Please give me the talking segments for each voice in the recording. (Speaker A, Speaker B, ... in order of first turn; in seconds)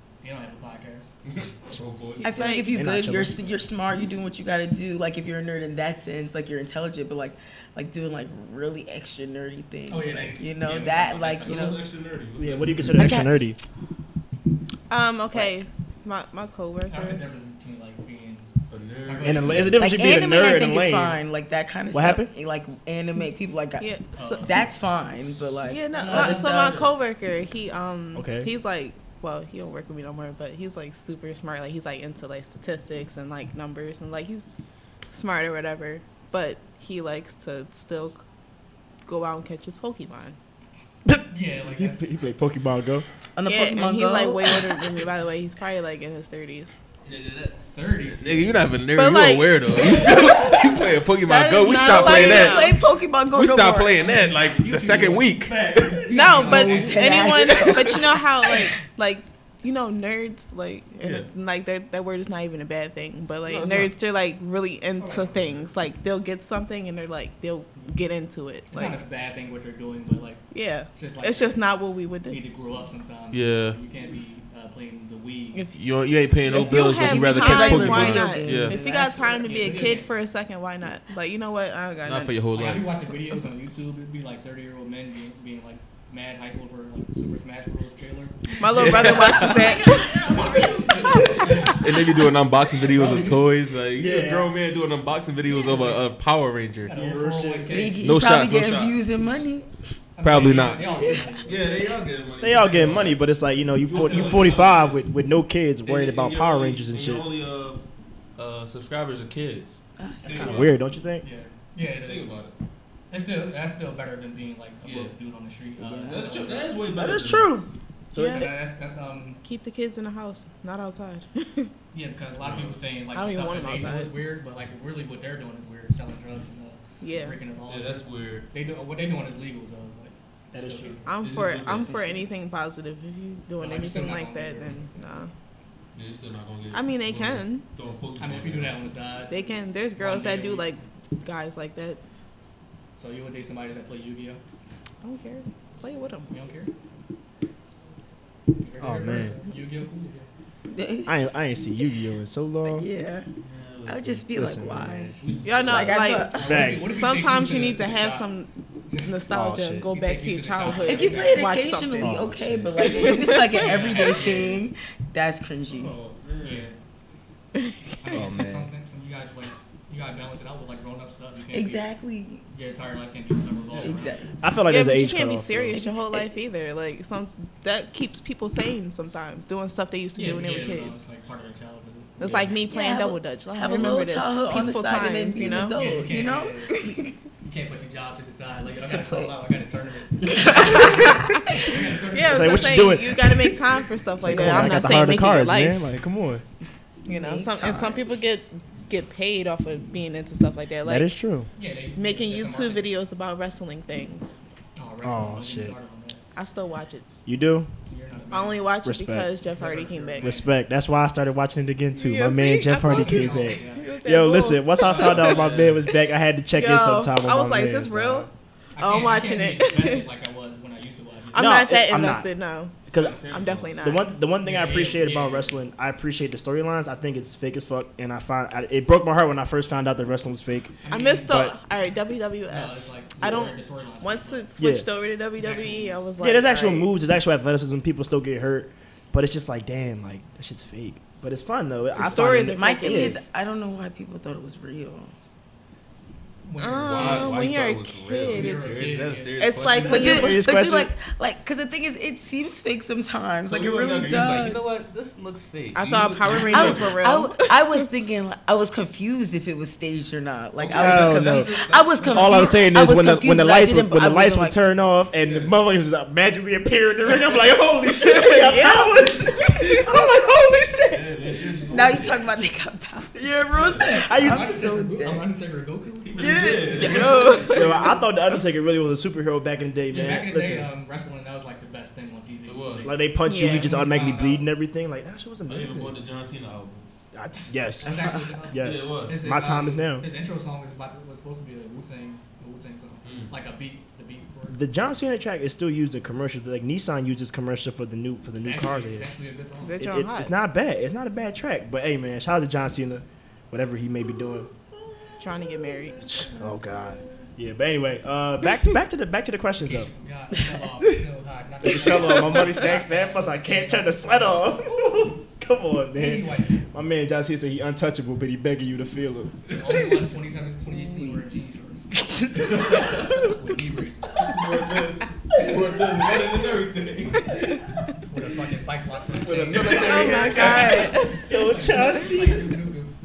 Speaker A: 0.2-1.1, 9.9-11.8, 16.9-18.5, 19.1-19.8, 24.2-24.6, 25.9-26.9, 41.3-42.2, 47.7-48.6, 54.1-57.3, 68.7-71.6, 72.3-75.6, 78.9-80.1, 82.5-91.8, 92.7-93.4, 95.7-96.0, 96.9-98.1, 100.2-101.8, 102.5-103.2, 103.9-104.7, 111.2-112.3, 113.1-116.7, 118.3-119.4, 121.9-131.1, 133.6-134.9, 138.2-139.4, 140.0-140.7, 143.0-144.4, 146.3-146.7, 148.6-150.3, 156.3-158.3, 158.9-159.2, 159.9-161.6, 163.5-164.7, 166.4-166.8, 168.0-171.9, 172.5-174.2, 180.2-182.5, 185.5-186.9, 187.4-193.0, 201.6-202.9, 204.8-206.2, 207.9-208.7, 209.4-210.5, 212.8-213.9, 218.8-221.6, 224.4-225.6, 230.8-231.4, 232.5-234.5, 235.4-236.0, 246.4-247.4, 248.3-249.6, 274.1-276.9, 279.9-284.5, 287.8-294.6, 298.4-299.9, 309.6-314.9, 315.9-316.7, 319.5-324.4, 328.1-332.9
Speaker B: 1.2-2.6, 11.4-13.1, 18.7-19.8, 47.1-52.8, 53.3-56.1, 57.5-58.0, 61.0-61.3, 63.5-63.9, 73.3-73.8, 75.7-78.8, 82.0-82.9, 88.7-89.7, 91.5-97.0, 98.0-99.3, 100.2-103.2, 103.8-105.0, 105.8-107.8, 108.4-110.8, 112.0-112.6, 114.8-115.1, 116.1-117.6, 122.4-122.8, 127.7-128.5, 131.2-132.1, 135.9-138.8, 153.4-154.2, 155.2-156.1, 163.9-164.4, 165.7-166.7, 214.8-216.0, 222.9-223.9, 246.9-250.2, 253.4-257.1, 260.6-262.7, 265.2-265.5, 270.9-272.4, 273.5-273.9, 276.0-277.6, 282.4-283.0, 285.5-286.9, 288.6-289.2, 293.0-293.3, 322.4-323.3, 324.1-327.6, 329.3-330.9
Speaker C: 2.2-2.7, 14.9-17.2, 23.8-24.5, 25.6-34.5, 35.1-38.2, 39.0-40.4, 43.5-46.7, 49.0-50.8, 51.8-52.8, 56.1-69.0, 70.5-72.4, 76.5-82.3, 88.6-91.8, 118.1-118.5, 119.4-121.7, 123.1-124.1, 127.0-127.4, 131.1-135.3, 136.7-137.6, 139.3-142.0, 145.0-146.3, 155.4-162.2, 162.8-163.7, 167.6-168.2, 174.7-181.1, 182.2-185.8, 190.3-195.8, 197.1-201.1, 201.9-204.4, 206.3-207.1, 208.3-210.4, 211.9-215.4, 216.5-220.0, 221.3-224.1, 230.9-236.9, 241.9-243.3, 246.6-250.5, 255.7-257.6, 268.0-269.7, 276.8-278.0, 283.2-283.8, 299.6-300.3, 305.2-306.1, 329.7-331.2
Speaker D: 2.2-11.8, 13.0-13.3, 19.8-26.7, 43.4-45.0, 51.2-54.2, 56.4-58.7, 76.5-79.6, 97.7-99.7, 110.0-110.7, 115.8-116.5, 131.6-132.3, 150.7-151.2, 152.6-153.3, 153.9-156.6, 160.8-165.9, 171.5-172.4, 173.8-174.3, 175.7-176.3, 182.7-187.1, 188.8-189.3, 194.2-195.1, 197.1-198.1, 242.0-245.1, 249.8-254.6, 256.5-264.6, 271.7-275.3, 276.2-277.4, 320.7-321.2, 330.4-330.9
Speaker E: 2.7-3.5, 12.4-13.6, 19.2-21.2, 21.9-22.3, 28.1-28.5, 41.7-43.0, 55.4-56.1, 65.0-65.7, 88.8-91.5, 93.0-93.3, 94.0-94.5, 96.9-97.7, 102.4-107.3, 110.3-111.2, 117.0-118.5, 130.5-131.0, 148.8-149.4, 151.1-152.9, 154.3-155.1, 156.4-156.9, 159.3-159.9, 162.0-162.7, 168.1-168.7, 174.4-175.8, 182.2-182.5, 190.4-191.0, 192.2-193.6, 194.2-196.4, 200.8-201.5, 205.0-205.7, 207.3-207.7, 208.8-209.3, 210.2-218.3, 221.3-222.3, 222.9-223.2, 223.8-231.6, 234.6-234.9, 236.2-243.2, 249.8-250.9, 260.8-261.5, 262.1-271.6, 273.9-274.5, 277.4-280.7, 282.8-286.0, 287.1-290.1, 294.5-299.1, 299.8-304.5, 306.0-309.9, 311.6-319.4, 329.2-332.5